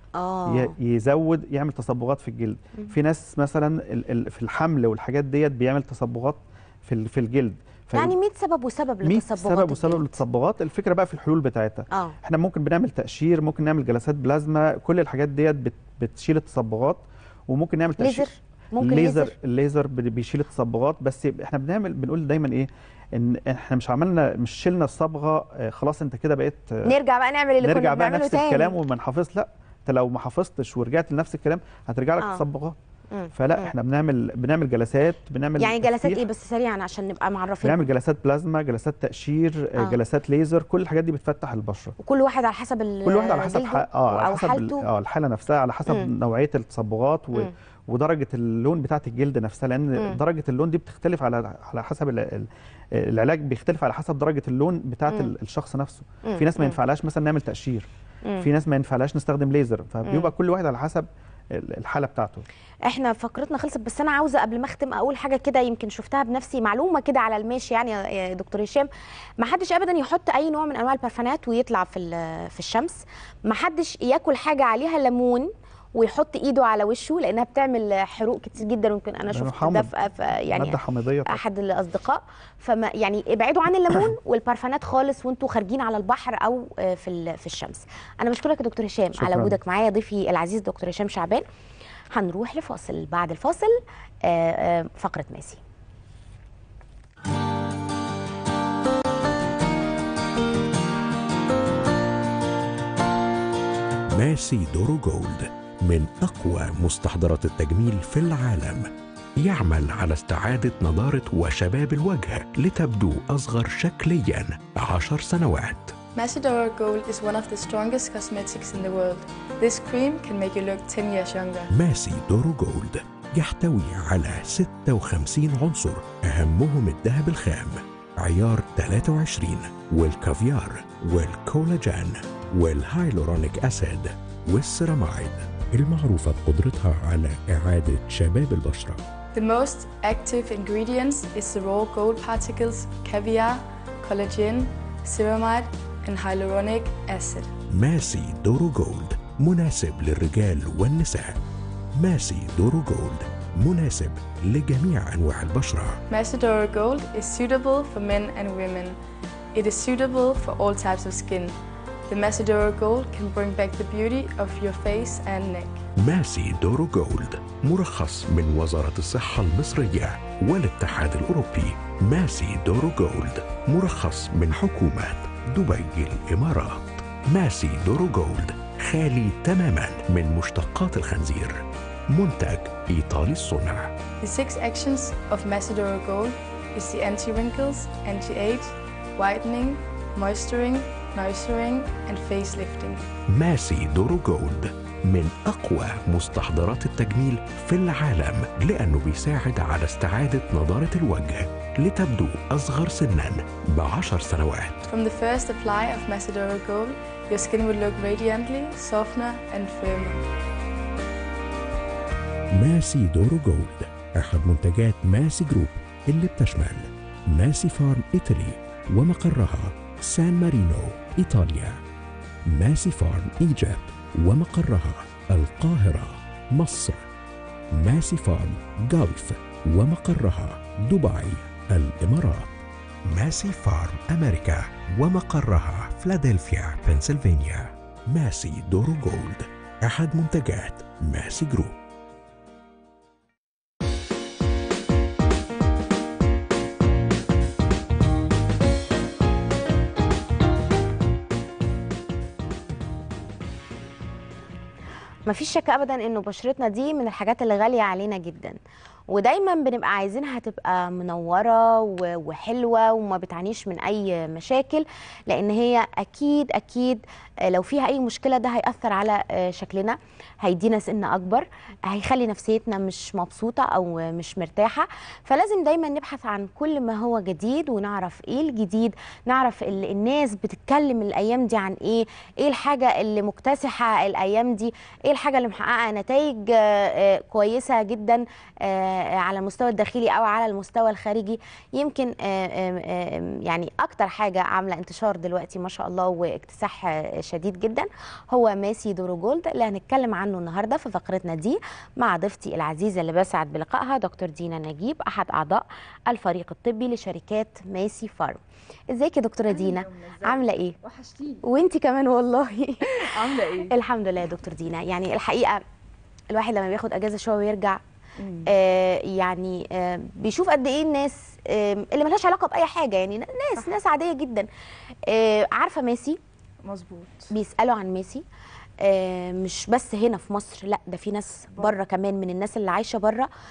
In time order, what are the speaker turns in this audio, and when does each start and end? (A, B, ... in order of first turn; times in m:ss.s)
0:00.2-0:00.7 A
0:00.5-0:08.2 B
0:08.0-0:10.2 A
0:09.0-0:18.3 B
0:18.0-0:19.3 A
0:18.8-0:27.0 B
0:26.9-0:28.8 A
0:27.6-0:32.8 B
0:33.1-0:33.7 A
0:33.4-0:36.2 B
0:35.6-0:37.9 A
0:37.6-0:41.9 B
0:42.0-0:44.8 A
0:43.0-0:57.9 B
0:56.3-0:56.8 A
0:58.4-1:02.4 B
1:00.1-1:00.3 A
1:02.9-1:08.9 A
1:09.4-1:31.4 A
1:19.3-1:21.4 B
1:29.2-1:29.6 B
1:32.1-1:35.6 A
1:44.1-1:56.0 C
1:56.2-2:01.7 D
2:01.7-2:19.0 C
2:19.3-2:27.5 D
2:27.7-2:31.4 C
2:32.0-2:36.0 C
2:36.1-2:39.0 D
2:39.6-2:41.6 D
2:42.1-2:45.8 D
2:46.0-3:03.9 C
3:04.2-3:13.0 D
3:13.3-3:24.9 C
3:24.9-3:30.2 D
3:32.6-3:41.8 C
3:42.5-3:47.0 C
3:47.8-3:52.5 C
3:53.1-4:01.8 C
4:15.3-4:18.6 A
4:19.1-5:08.4 A
5:08.9-5:10.8 A
5:09.5-5:11.4 E
5:11.4-5:15.6 A
5:12.9-5:13.7 E
5:16.3-5:17.8 A
5:18.2-5:18.5 E
5:18.5-5:24.5 A
5:25.1-5:26.2 A
5:26.6-5:27.3 E
5:27.3-5:28.2 A
5:28.8-5:33.3 A